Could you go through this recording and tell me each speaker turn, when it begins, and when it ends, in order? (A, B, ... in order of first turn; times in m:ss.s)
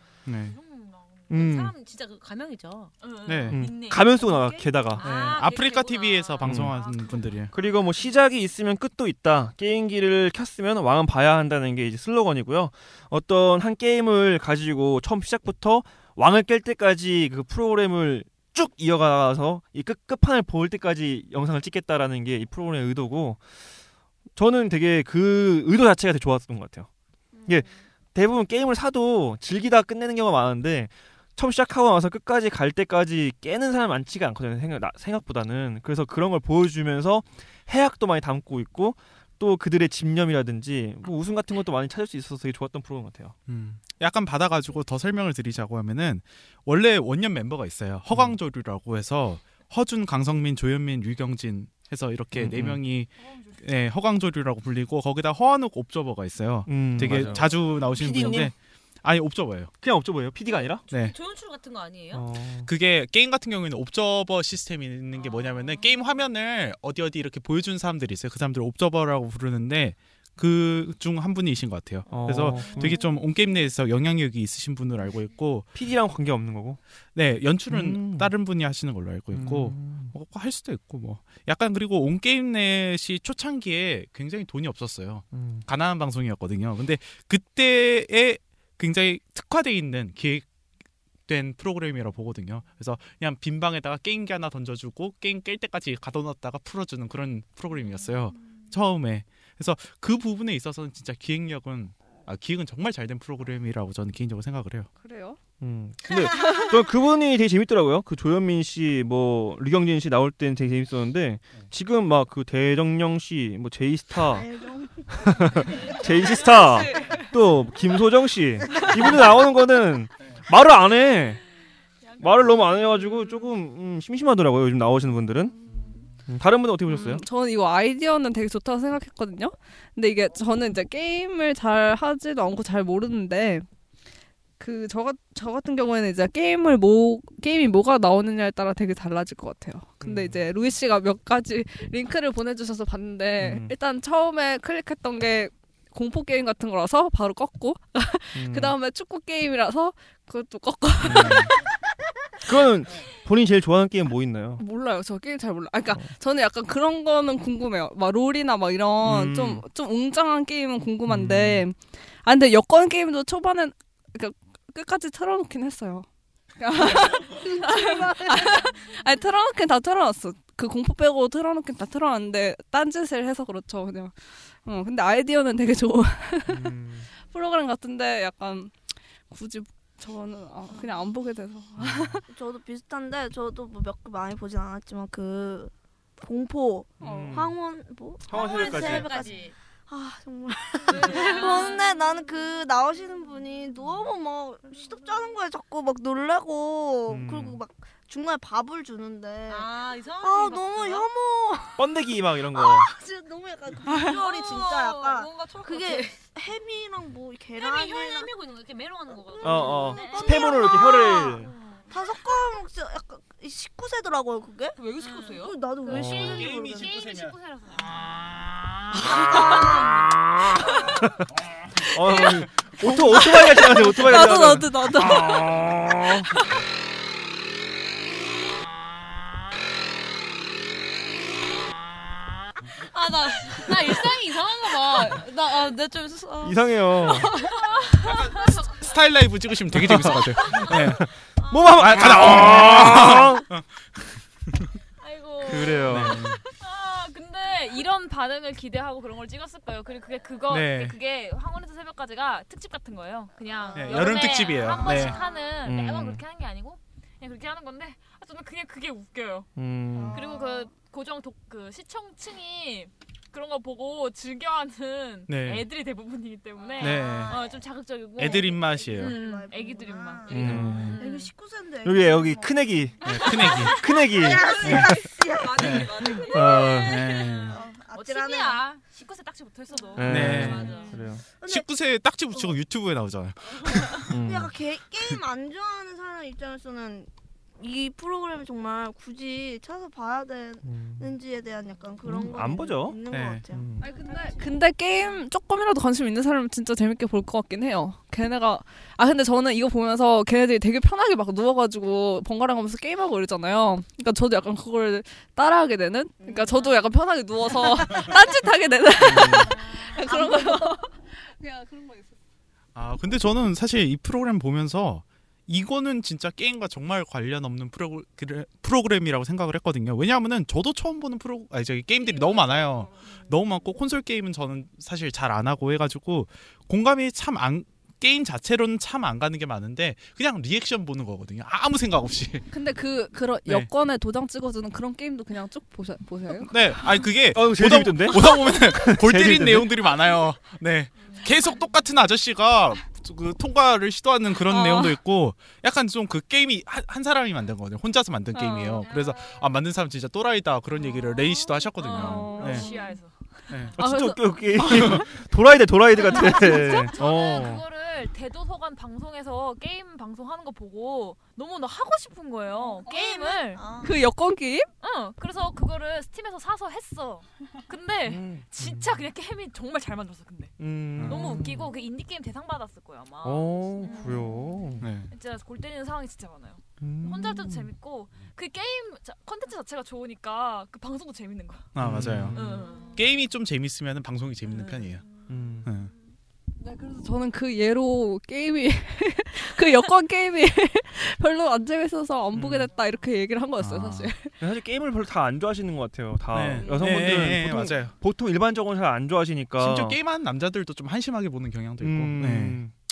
0:00.2-0:00.5 A
0:00.4-0:02.9 B
0:01.3-0:01.7 C
0:03.0-0:04.9 D
0:03.2-0:03.7 A
0:03.5-0:05.0 C
0:04.4-0:07.0 B
0:05.0-0:07.5 A
0:06.4-0:06.7 C
0:06.6-0:08.1 D
0:07.5-0:23.4 C
0:24.4-0:26.9 C
0:27.4-0:43.3 C
0:43.5-0:59.7 A
0:52.3-0:52.8 C
0:56.7-0:58.5 C
0:57.1-0:58.5 B
0:59.8-1:00.8 C
1:00.9-1:02.2 B
1:00.9-1:01.2 A
1:02.1-1:02.7 C
1:02.6-1:15.7 A
1:12.1-1:13.1 C
1:15.7-1:16.8 C
1:17.1-1:30.4 A
1:17.7-1:18.3 C
1:19.3-1:20.1 C
1:25.3-1:25.6 C
1:31.3-1:44.9 A
1:45.0-1:45.4 E
1:45.6-1:54.4 C
1:54.2-1:56.0 F
1:55.2-2:01.4 C
2:02.2-2:03.2 D
2:02.2-2:05.6 C
2:06.3-2:07.2 C
2:06.8-2:13.6 E
2:14.6-2:31.5 E
2:20.0-2:20.4 C
2:23.4-2:23.7 C
2:28.3-2:28.7 C
2:31.0-2:31.5 C
2:32.4-2:34.6 C
2:34.6-2:46.1 E
2:39.0-2:39.6 C
2:41.1-2:41.6 C
2:46.6-2:58.7 E
2:47.3-2:48.7 F
2:56.5-2:57.1 C
2:59.3-3:02.2 E
3:01.8-3:02.2 C
3:02.3-3:22.0 F
3:07.0-3:07.6 C
3:07.0-3:07.4 E
3:08.2-3:09.3 C
3:08.3-3:09.5 B
3:10.9-3:11.9 B
3:17.1-3:17.6 C
3:19.5-3:21.1 B
3:21.8-3:22.9 C
3:22.5-3:28.3 F
3:23.9-3:26.2 B
3:27.5-3:30.4 B
3:29.3-3:37.1 F
3:29.4-3:31.5 C
3:29.9-3:30.2 D
3:34.8-3:35.5 B
3:35.8-3:38.0 D
3:35.9-3:36.4 C
3:36.5-3:36.9 A
3:39.1-3:40.0 F
3:39.2-3:39.5 C
3:40.0-3:41.2 C
3:41.8-3:46.3 C
3:42.8-3:45.7 E
3:52.8-3:57.5 B
3:56.4-3:57.3 C
3:57.4-3:58.6 D
3:58.4-4:01.1 A
3:59.7-4:00.2 C
4:00.8-4:03.5 C
4:01.7-4:03.7 A
4:04.4-4:04.7 A
4:05.0-4:19.5 D
4:05.5-4:06.4 A
4:05.5-4:06.2 C
4:10.5-4:11.0 A
4:13.7-4:15.2 A
4:15.6-4:16.2 C
4:19.6-4:20.2 C
4:19.9-4:20.7 F
4:20.0-4:31.3 D
4:25.3-4:25.7 A
4:26.8-4:27.4 A
4:26.8-4:27.5 F
4:28.2-4:29.2 A
4:28.4-4:36.2 F
4:30.3-4:31.0 C
4:30.5-4:30.7 A
4:30.7-4:31.1 B
4:31.8-4:33.1 C
4:33.0-4:33.8 A
4:33.1-4:34.2 D
4:33.7-4:34.5 C
4:34.6-4:35.0 A
4:35.4-4:37.2 B
4:35.6-4:36.1 A
4:36.0-4:36.6 D
4:36.2-4:37.1 C
4:36.8-4:37.6 A
4:37.2-4:41.1 D
4:37.4-4:38.6 F
4:40.0-4:41.2 C
4:40.0-4:40.8 A
4:40.2-4:40.9 B
4:41.4-4:41.7 F
4:41.4-4:44.1 A
4:44.1-4:44.5 C
4:44.2-4:54.6 F
4:50.6-4:51.1 C
4:52.0-4:53.0 C
4:53.1-4:53.4 A
4:53.5-4:53.9 C
4:53.8-5:10.9 E
5:06.2-5:06.5 F
5:09.0-5:09.5 C
5:09.6-5:10.8 F
5:12.7-5:32.4 A
5:32.5-5:36.5 E
5:36.4-5:52.7 A
5:37.3-5:39.8 C
5:44.5-5:44.9 E
5:48.3-5:48.8 E
5:51.7-5:53.1 D
5:51.9-5:53.0 E
5:53.5-5:53.8 A
5:53.8-5:57.6 C
5:53.8-5:55.1 E
5:56.0-6:03.7 D
5:56.2-5:56.8 E
6:02.6-6:04.0 F
6:03.8-6:04.7 E
6:04.8-6:21.7 D
6:08.0-6:08.8 C
6:10.6-6:11.7 C
6:11.0-6:11.4 A
6:13.2-6:14.9 C
6:14.8-6:15.1 A
6:16.8-6:17.7 C
6:21.8-6:25.0 A
6:21.8-6:22.6 C
6:22.3-6:23.0 D
6:24.5-6:25.0 D
6:25.3-6:25.7 C
6:25.6-6:25.9 A
6:26.6-6:34.3 E
6:32.4-6:32.6 C
6:33.6-6:34.1 A
6:34.4-6:40.0 C
6:36.3-6:37.9 A
6:39.6-6:42.6 A
6:41.8-6:42.7 C